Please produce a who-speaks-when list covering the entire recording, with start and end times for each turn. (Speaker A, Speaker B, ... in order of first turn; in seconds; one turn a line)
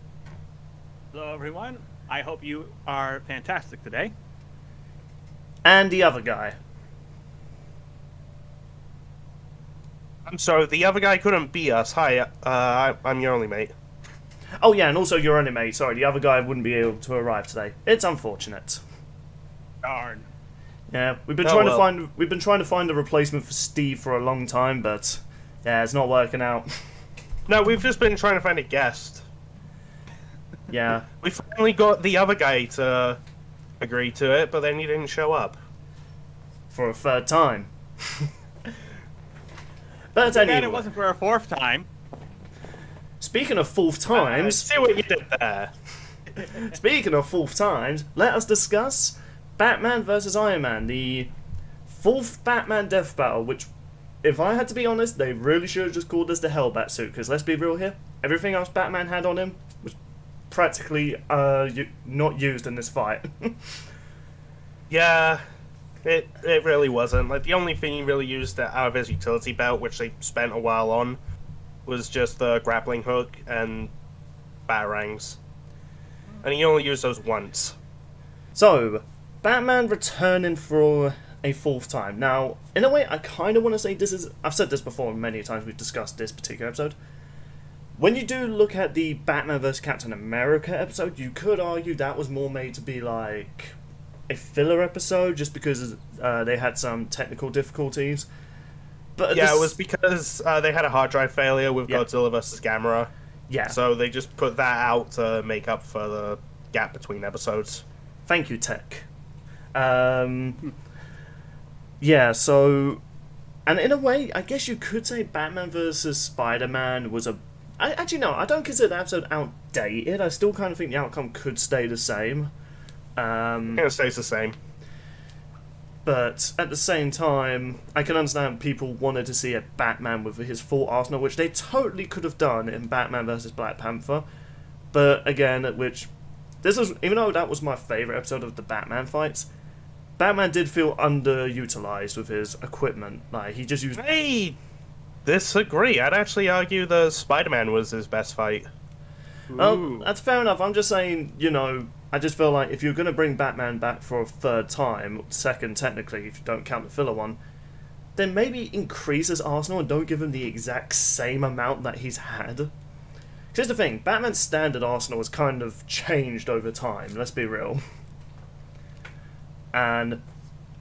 Speaker A: 1.1-4.1
Speaker B: 5.7-6.6
Speaker C: 10.3-13.7
Speaker B: 14.6-18.8
Speaker A: 19.8-20.3
Speaker B: 20.9-26.8
Speaker C: 21.4-21.8
Speaker C: 27.5-29.3
Speaker B: 30.7-31.1
Speaker C: 31.2-33.2
Speaker C: 33.8-35.6
Speaker B: 36.7-38.3
Speaker B: 40.1-40.9
Speaker A: 40.2-41.9
Speaker B: 43.2-44.7
Speaker C: 44.1-45.7
Speaker B: 46.4-51.3
Speaker B: 51.9-53.7
Speaker B: 54.2-60.0
Speaker B: 60.5-63.8
Speaker C: 64.9-65.4
Speaker C: 66.0-71.2
Speaker C: 71.9-73.9
Speaker C: 74.7-75.4
Speaker C: 76.4-77.8
Speaker B: 78.5-87.0
Speaker B: 88.0-93.8
Speaker B: 94.3-98.3
Speaker B: 99.2-99.8
Speaker C: 99.3-103.1
Speaker B: 103.5-103.8
Speaker C: 103.7-107.8
Speaker B: 108.3-109.1
Speaker B: 109.8-110.6
Speaker B: 112.0-113.0
Speaker B: 113.7-122.5
Speaker B: 123.2-123.9
Speaker C: 123.7-124.6
Speaker B: 126.0-134.3
Speaker B: 134.9-136.1
Speaker B: 136.6-139.5
Speaker B: 140.2-144.0
Speaker C: 144.0-144.6
Speaker C: 145.2-148.7
Speaker C: 149.5-150.1
Speaker B: 149.6-157.4
Speaker B: 158.2-162.7
Speaker B: 163.5-167.8
Speaker B: 169.7-170.2